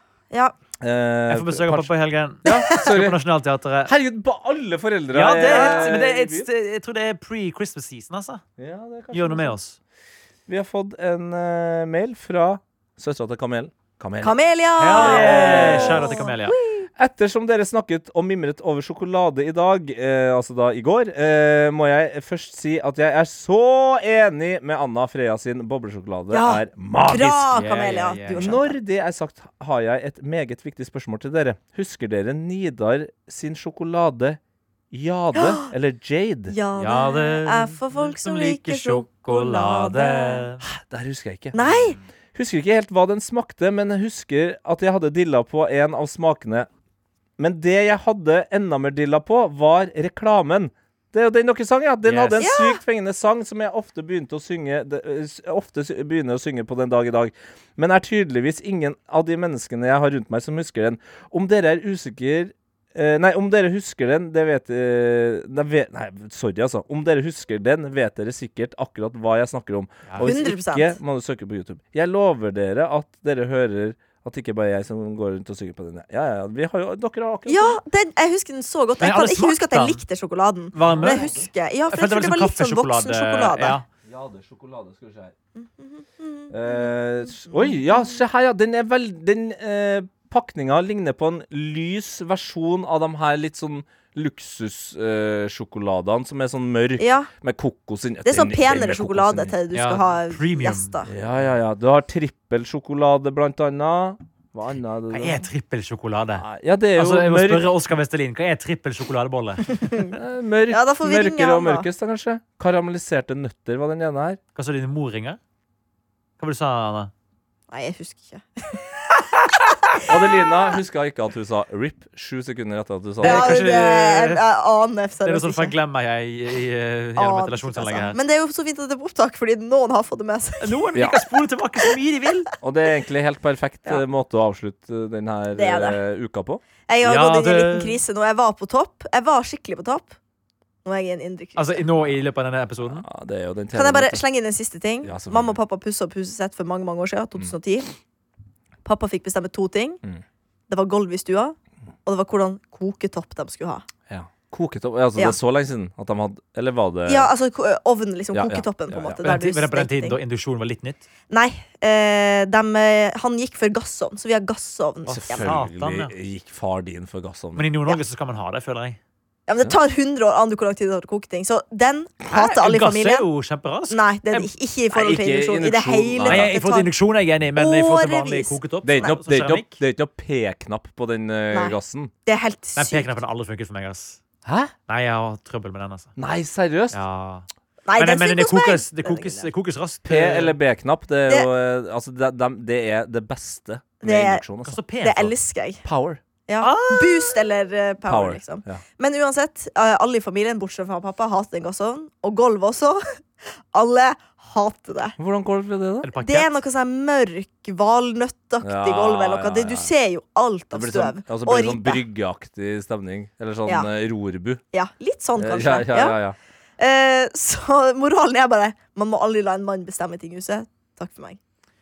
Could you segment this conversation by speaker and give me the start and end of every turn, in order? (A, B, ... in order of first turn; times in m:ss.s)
0:00.3-0:00.6 A
0:00.8-0:01.9 B
0:01.3-0:03.9 C
0:02.4-0:03.2 B
0:02.5-0:02.8 A
0:03.9-0:06.5 B
0:05.1-0:08.4 C
0:08.6-0:09.5 B
0:09.1-0:09.8 C
0:10.5-0:16.2 B
0:14.2-0:16.9 A
0:14.8-0:16.6 C
0:17.0-0:34.4 B
0:26.3-0:28.8 A
0:27.5-0:28.6 C
0:34.9-0:36.6 B
0:35.4-0:35.6 A
0:36.5-0:40.5 A
0:36.8-0:40.6 C
0:40.6-0:41.6 B
0:41.5-0:42.0 A
0:41.6-0:42.0 C
0:42.4-0:46.7 B
0:47.4-1:17.8 B
0:52.1-0:52.4 C
0:52.4-0:52.8 A
1:10.2-1:11.0 A
1:17.5-1:23.8 A
1:19.0-1:20.0 C
1:20.8-1:21.2 C
1:20.8-1:21.4 B
1:21.9-1:23.8 C
1:24.0-1:25.3 B
1:25.6-1:28.2 A
1:26.5-1:39.5 B
1:37.0-1:37.3 A
1:38.2-1:41.1 A
1:39.7-1:41.0 C
1:41.1-1:45.5 B
1:45.1-1:46.4 C
1:46.4-1:47.8 B
1:47.0-1:49.9 C
1:50.2-1:54.4 B
1:50.7-1:51.9 A
1:54.6-1:55.4 C
1:56.4-1:57.1 C
1:57.7-1:59.0 A
2:00.1-2:03.8 B
2:03.2-2:04.4 C
2:03.2-2:05.8 A
2:05.2-2:08.2 C
2:07.2-2:10.8 A
2:10.6-2:12.5 C
2:11.0-2:11.2 B
2:12.6-2:16.6 B
2:15.6-2:16.0 A
2:16.9-2:20.2 A
2:17.0-2:18.0 C
2:20.8-2:21.9 A
2:21.6-2:23.1 C
2:22.8-2:24.2 B
2:23.7-2:27.9 A
2:25.0-2:25.6 B
2:28.8-2:30.0 A
2:30.7-2:33.8 A
2:34.1-2:37.3 B
2:37.1-2:40.2 A
2:38.3-2:39.4 B
2:39.2-2:41.0 C
2:41.3-2:45.5 A
2:45.1-2:46.1 C
2:45.1-2:47.7 B
2:47.6-2:49.0 C
2:49.5-2:53.3 A
2:52.3-2:54.5 C
2:53.9-2:56.9 A
2:54.9-2:56.5 B
2:56.2-2:59.8 C
2:57.6-2:59.2 A
2:58.8-3:02.1 B
3:01.5-3:03.2 A
3:02.8-3:04.2 C
3:04.4-3:04.7 B
3:04.9-3:06.1 C
3:06.2-3:07.0 B
3:06.9-3:07.5 C
3:07.9-3:09.5 A
3:08.0-3:10.6 C
3:10.0-3:14.8 B
3:14.0-3:14.4 A
3:14.7-3:15.3 C
3:15.0-3:15.8 A
3:15.8-3:16.2 B
3:16.5-3:23.0 A
3:16.6-3:17.3 C
3:18.1-3:18.8 B
3:23.7-3:25.2 A
3:25.2-3:26.1 B
3:26.0-3:26.5 C
3:26.2-3:32.0 A
3:28.6-3:29.9 B
3:30.7-3:34.6 B
3:34.7-3:36.2 A
3:35.4-3:36.4 B
3:36.8-3:41.4 A